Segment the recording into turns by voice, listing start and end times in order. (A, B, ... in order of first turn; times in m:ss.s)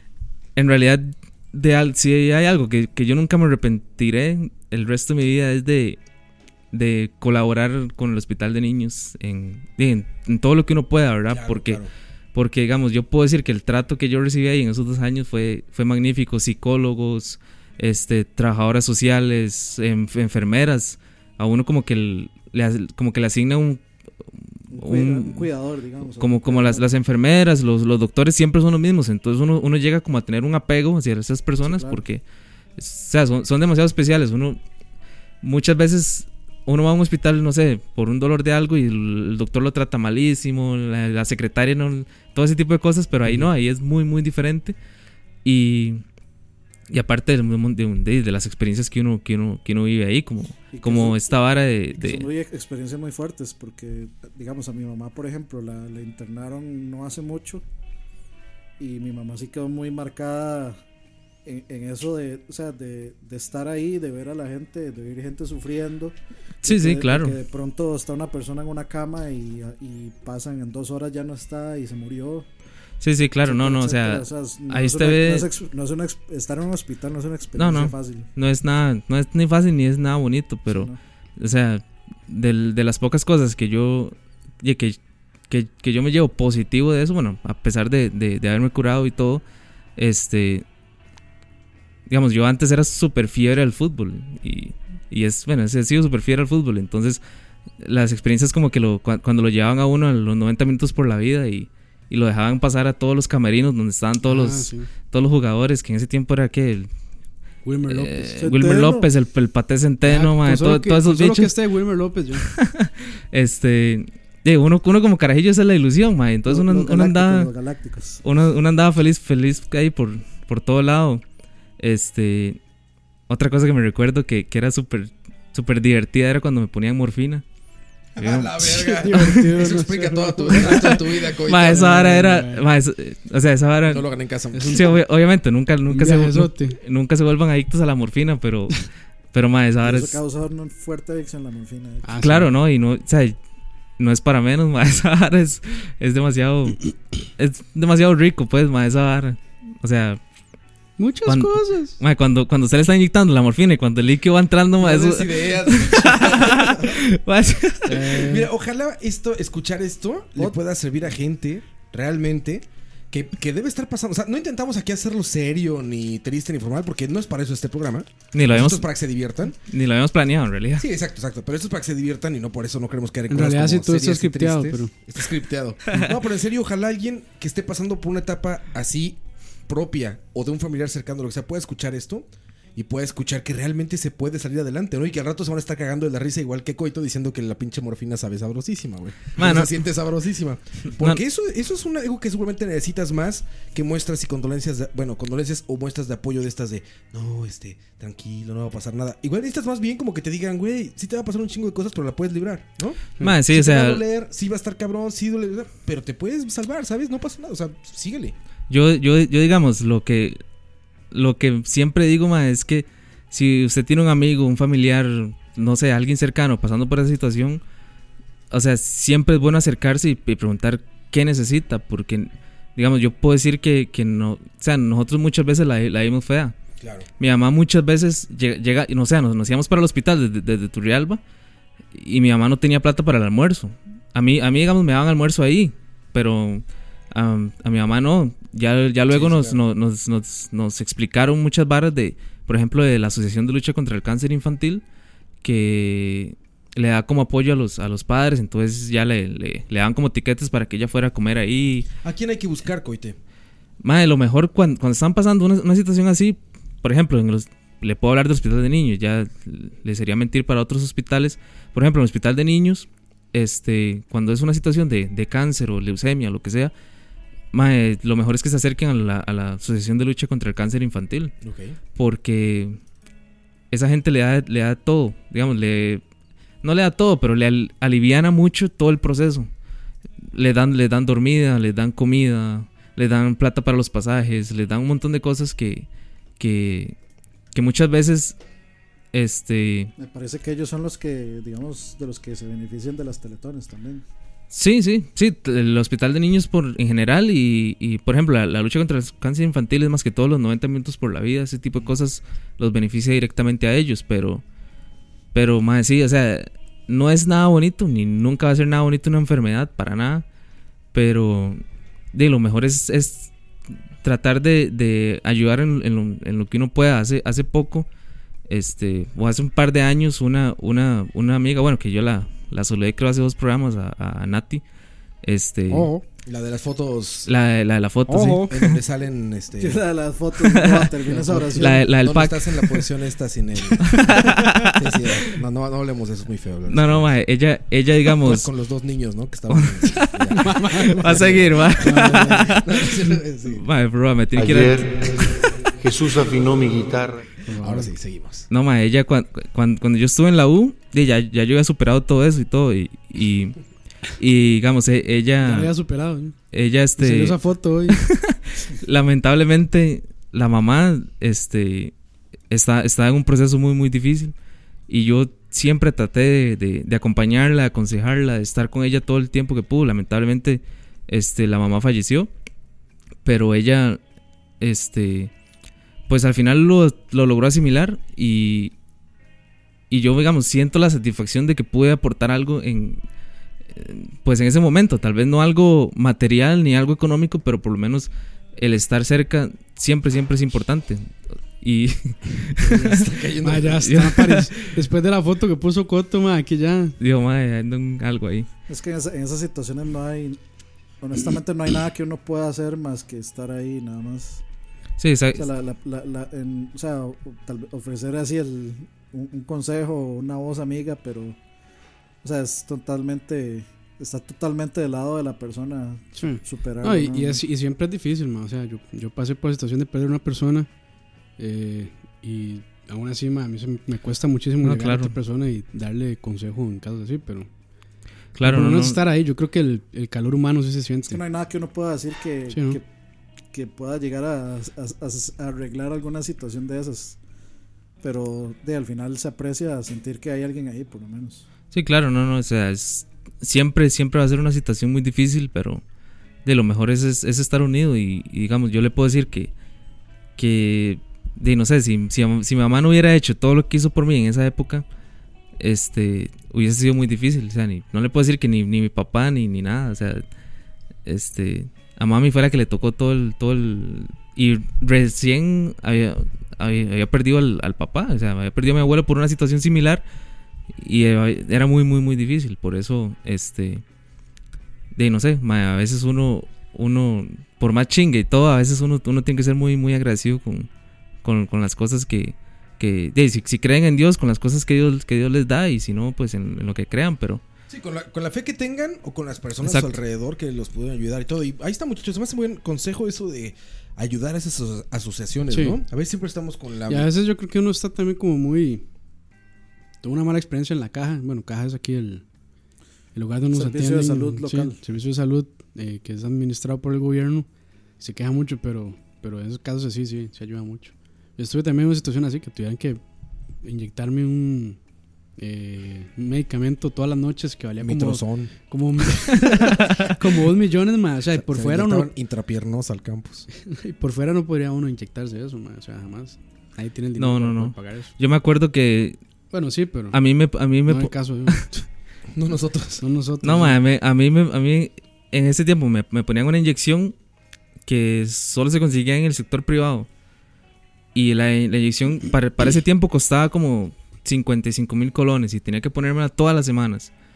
0:00.6-0:06.0 A
0:06.7-0:11.8 A
0:11.3-0:11.9 B
0:12.3-0:23.8 A
0:24.7-0:26.9 C
0:24.7-0:25.5 A
0:26.0-0:32.2 A
0:31.6-0:32.0 C
0:32.8-0:34.6 A
0:35.4-0:44.8 A
0:45.4-0:46.0 A
0:46.9-0:52.3 A
0:50.7-0:51.3 C
0:51.9-0:57.6 C
0:58.8-1:00.8 C
1:01.4-1:12.5 C
1:06.6-1:07.4 A
1:13.0-1:15.5 A
1:13.4-1:18.3 C
1:17.6-1:25.0 A
1:20.7-1:21.0 C
1:25.5-1:29.4 A
1:30.0-1:30.6 A
1:32.1-1:37.2 A
1:37.8-1:46.9 A
1:44.2-1:44.9 D
1:47.6-1:48.4 D
1:47.9-1:51.5 A
1:48.4-1:49.1 C
1:50.0-1:52.5 D
1:52.4-1:57.5 A
1:56.5-1:58.2 C
1:58.2-2:01.2 A
2:01.8-2:02.6 A
2:03.3-2:07.4 A
2:08.2-2:12.0 B
2:08.2-2:09.3 A
2:08.6-2:11.0 D
2:11.4-2:14.1 A
2:11.6-2:12.6 D
2:13.9-2:15.0 B
2:14.5-2:14.9 D
2:14.7-2:20.2 A
2:15.9-2:16.8 D
2:19.8-2:22.1 C
2:22.0-2:22.5 D
2:22.2-2:23.4 A
2:24.0-2:30.2 A
2:31.0-2:32.0 D
2:31.3-2:38.2 A
2:34.8-2:37.0 B
2:37.9-2:38.5 D
2:38.1-2:49.6 B
2:48.3-2:48.9 A
2:49.7-2:50.9 A
2:50.8-3:28.4 B
2:53.3-2:54.9 D
3:09.4-3:09.8 A
3:23.2-3:24.0 A
3:28.7-3:30.4 A
3:31.1-3:37.6 A
3:38.5-3:46.6 A
3:46.8-3:47.1 B
3:47.2-3:51.2 A
3:51.9-4:04.8 A
3:59.1-3:59.6 B
4:05.4-4:11.9 A
4:12.0-4:13.2 B
4:13.8-4:26.7 A
4:27.5-4:31.3 A
4:31.4-4:31.8 B
4:32.0-4:32.8 A
4:33.7-4:36.0 A
4:36.6-4:39.5 A
4:40.3-4:45.9 A
4:46.4-4:47.0 A
4:47.5-4:48.4 A
4:49.1-4:49.9 A
4:50.0-4:54.0 C
4:54.5-5:04.4 A
5:05.3-5:10.2 A
5:10.9-5:11.6 A
5:12.1-5:13.3 A
5:14.0-5:17.9 A
5:18.5-5:24.6 A
5:25.2-5:25.9 A
5:25.7-5:27.3 B
5:27.3-5:28.8 A
5:28.1-5:28.5 D
5:28.1-5:29.8 B
5:29.6-5:31.9 C
5:30.4-5:30.9 A
5:31.1-5:31.6 D
5:31.6-5:32.9 A
5:31.8-5:37.1 B
5:33.8-5:35.0 A
5:36.7-5:38.5 A
5:38.2-5:43.6 B
5:39.5-5:45.0 A
5:40.4-5:42.6 D
5:44.4-5:47.3 E
5:47.5-5:47.9 D
5:47.6-5:48.5 B
5:48.5-5:53.6 A
5:54.2-5:55.7 A
5:55.4-5:56.4 D
5:56.5-6:01.9 A
5:57.0-5:58.0 D
6:02.5-6:04.3 A
6:04.9-6:12.3 A
6:13.2-6:14.0 A
6:14.6-6:15.3 A
6:16.1-6:18.7 A
6:19.9-6:23.0 A
6:23.7-6:33.0 A
6:32.6-6:34.0 B
6:33.4-6:37.0 D
6:33.8-6:34.5 A
6:37.0-6:38.5 A
6:38.7-6:40.4 C
6:41.0-6:44.4 C
6:45.0-6:45.5 A
6:45.4-6:51.4 C
6:52.2-6:57.4 C
6:56.2-7:00.7 D
7:01.4-7:07.5 D
7:04.6-7:05.1 A
7:08.4-7:09.0 A
7:08.4-7:11.2 D
7:11.1-7:12.9 C
7:12.5-7:12.8 D
7:13.5-7:17.2 C
7:18.0-7:21.4 C
7:21.7-7:25.8 A
7:26.4-7:29.5 A
7:30.4-7:34.8 A
7:35.6-7:40.2 A
7:41.0-7:50.0 A
7:50.8-7:53.8 A
7:55.0-8:00.7 A
8:01.2-8:07.4 A
8:07.7-8:17.1 B
8:09.6-8:09.9 A
8:15.5-8:15.8 D
8:16.9-8:18.8 D
8:20.0-8:22.2 D
8:23.2-8:27.5 D
8:23.5-8:24.8 C
8:28.0-8:33.0 D
8:33.6-8:34.8 D
8:35.4-8:42.1 D
8:37.8-8:38.5 B
8:39.4-8:40.0 B
8:41.3-8:43.5 B
8:43.5-8:48.1 D
8:47.2-8:49.2 A
8:49.5-8:50.2 D
8:50.1-8:51.6 A
8:50.9-8:51.9 D
8:52.3-8:53.0 B
8:53.0-8:53.8 D
8:53.4-8:57.1 A
8:57.9-9:00.1 A
9:01.2-9:07.1 A